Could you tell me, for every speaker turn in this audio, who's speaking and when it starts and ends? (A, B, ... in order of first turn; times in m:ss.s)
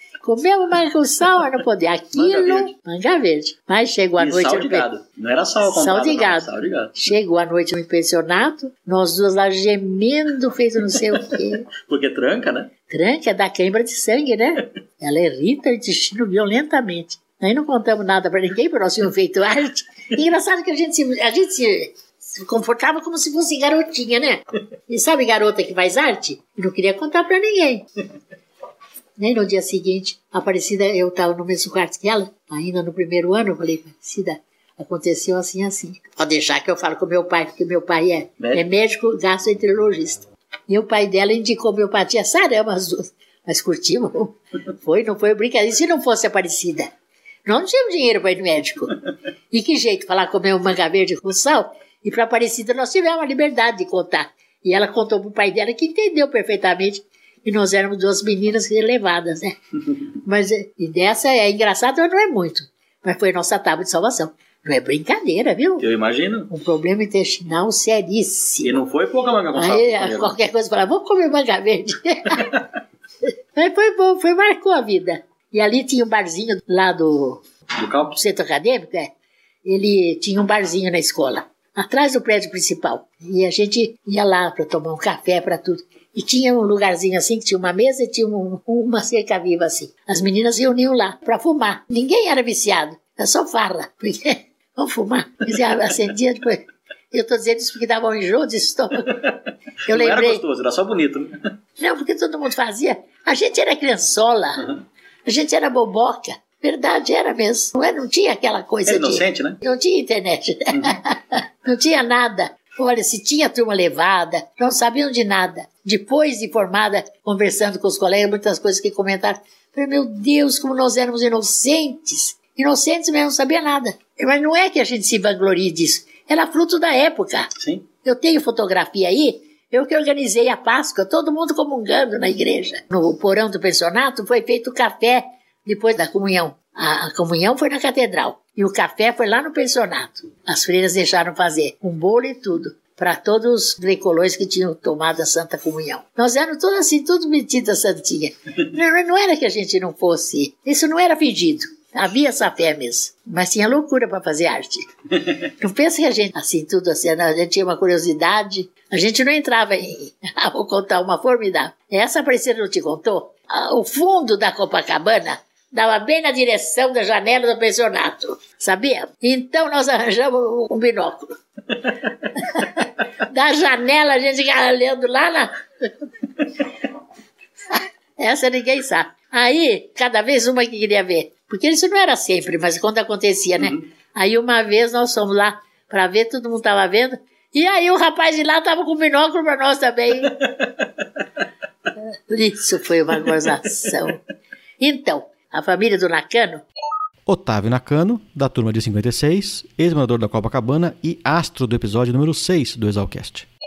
0:00.2-0:04.9 A
0:02.1-0:02.7 B
0:04.2-0:07.0 B
0:05.6-0:11.7 A
0:11.2-0:12.7 B
0:12.9-0:27.8 A
0:29.2-0:46.9 A
0:47.5-0:49.0 A
0:49.5-0:59.5 A
1:00.2-1:05.8 A
1:05.8-1:06.5 B
1:06.5-1:08.8 A
1:08.6-1:10.3 B
1:09.5-1:12.5 A
1:13.6-1:17.4 A
1:17.8-1:18.2 B
1:18.1-1:19.1 A
1:19.6-1:39.1 A
1:39.9-1:40.4 A
1:39.9-1:41.4 B
1:41.8-1:44.6 A
1:45.3-2:07.5 A
1:48.9-1:49.6 B
2:07.6-2:07.9 B
2:08.0-2:34.8 A
2:35.6-2:51.3 A
2:52.5-2:55.9 A
2:57.7-3:10.4 A
3:12.3-3:14.2 A
3:14.8-3:16.6 A
3:17.3-3:23.5 C